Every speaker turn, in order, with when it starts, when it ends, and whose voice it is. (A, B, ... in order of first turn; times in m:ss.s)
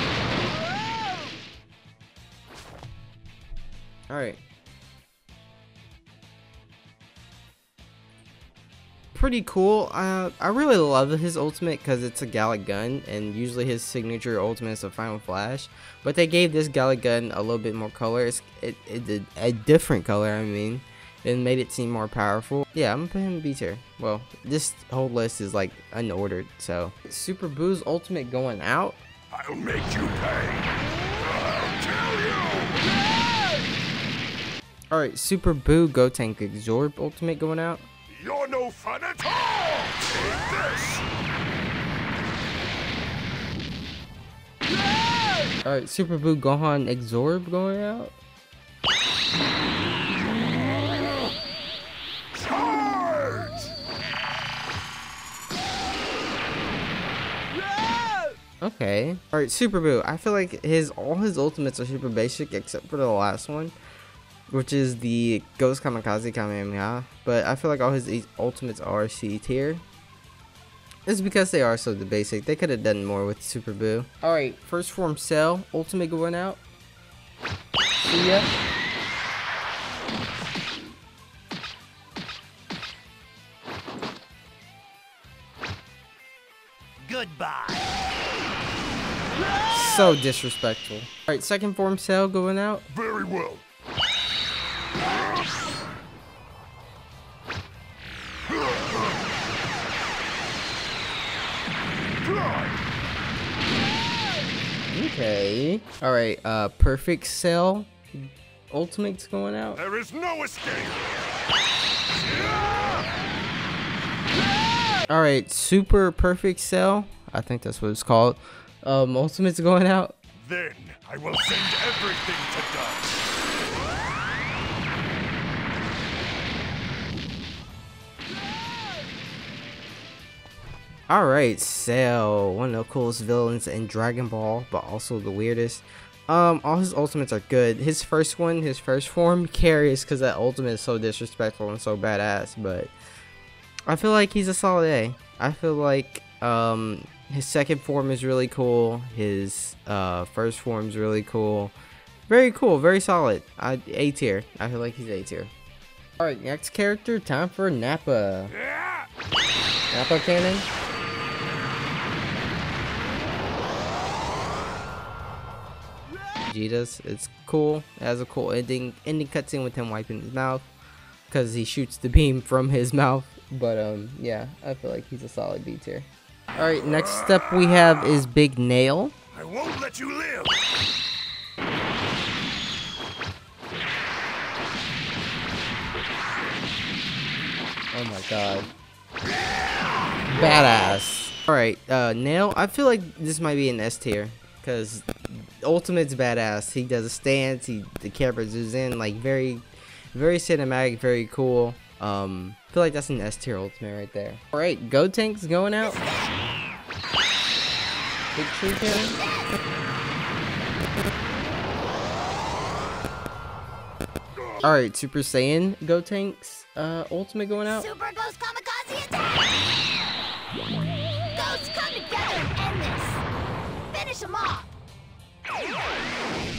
0:04.1-0:04.4 A
0:09.1-0:29.0 A
0:29.3-0:32.9 B
0:34.9-0:37.9 A
0:38.1-0:41.1 B
0:45.6-0:48.2 A
0:52.3-0:53.7 B
0:58.6-1:03.8 A
1:04.5-1:09.8 A
1:11.1-1:16.6 A
1:18.0-1:18.6 A
1:27.0-1:27.9 B
1:29.7-1:32.8 A
1:32.9-1:33.6 B
1:42.2-1:42.8 B
1:44.9-1:49.8 A
1:49.8-1:51.2 B
1:52.2-1:53.0 B
1:55.1-2:00.2 A
2:00.4-2:03.2 B
2:11.1-2:22.9 A
2:23.9-2:31.8 A
2:32.3-2:35.5 A
2:36.2-2:38.5 A
2:38.5-2:39.1 B
2:39.9-2:40.7 A
2:46.5-2:50.7 A
2:51.3-2:59.1 A
2:59.3-3:00.6 B
3:07.9-3:08.7 A
3:09.3-3:10.2 B
3:10.3-3:26.0 A
3:25.8-3:26.3 C
3:28.4-3:29.2 A
3:28.9-3:29.6 C
3:34.6-3:37.9 A
3:37.7-3:39.8 C
3:41.3-3:43.2 C
3:43.9-3:44.7 C